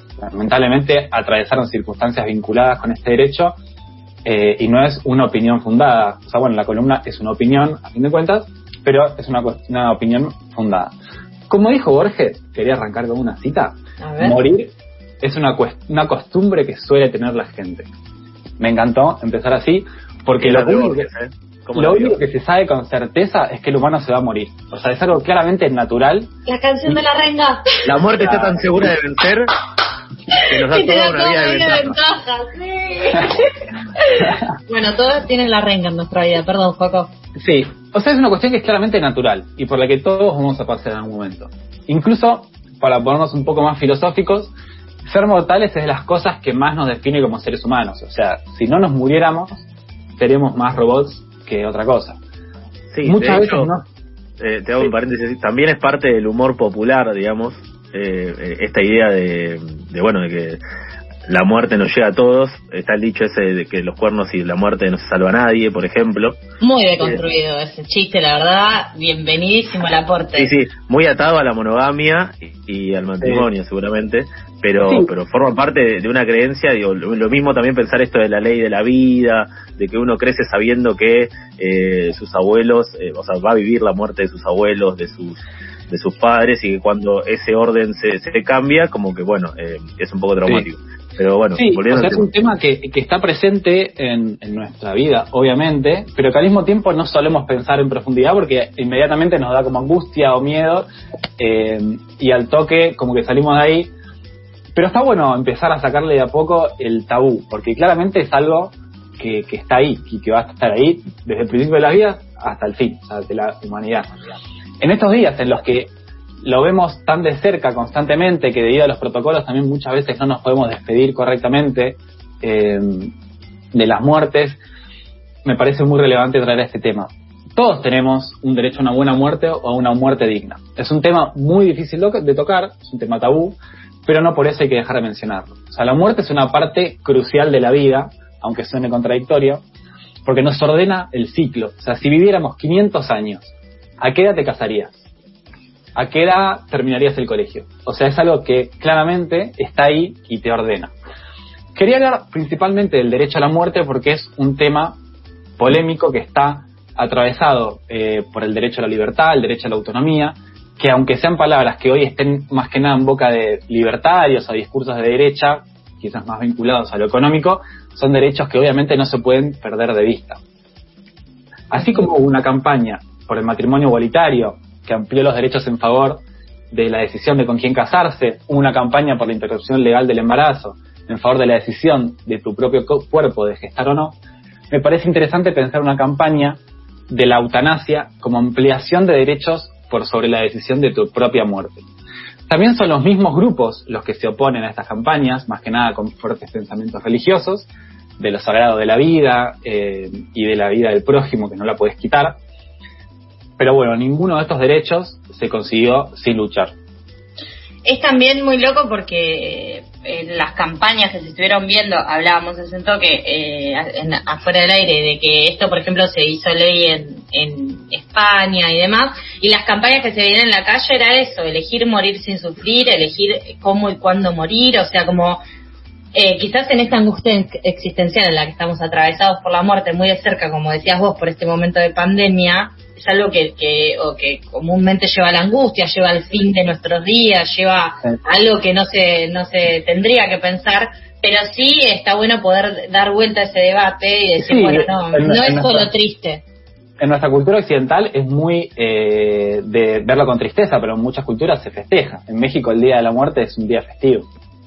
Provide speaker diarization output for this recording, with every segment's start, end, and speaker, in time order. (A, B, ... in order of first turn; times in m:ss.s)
0:00.2-0:03.5 A
0:04.2-0:10.9 A
0:11.5-0:17.9 A
0:14.0-0:14.4 B
0:18.6-0:21.1 A
0:20.4-0:22.2 C
0:21.7-0:26.3 A
0:26.4-0:27.8 B
0:27.9-0:29.5 C
0:28.2-0:28.8 A
0:30.3-0:33.4 B
0:30.5-0:32.0 C
0:34.0-0:37.1 B
0:37.4-0:44.5 A
0:45.1-0:49.6 A
0:50.2-0:52.2 A
0:52.9-0:53.7 C
0:53.0-0:53.8 A
0:54.4-1:00.6 C
1:01.3-1:06.4 C
1:06.6-1:10.5 B
1:10.3-1:25.4 C
1:14.8-1:15.1 A
1:25.9-1:32.3 C
1:31.5-1:40.9 A
1:41.4-1:43.9 A
1:44.7-1:54.1 A
1:54.8-1:55.9 A
1:56.4-2:03.1 A
2:03.7-2:04.6 A
2:05.4-2:19.6 A
2:20.2-2:25.0 A
2:25.9-2:30.9 A
2:31.7-2:35.0 A
2:35.6-2:50.4 A
2:51.7-3:04.2 A
2:51.8-2:52.1 B
3:04.7-3:11.8 A
3:12.5-3:17.7 A
3:18.2-3:22.4 A
3:23.6-3:26.7 A
3:27.8-3:45.4 B
3:46.1-4:06.4 B
4:04.4-4:05.9 A
4:07.0-4:14.3 A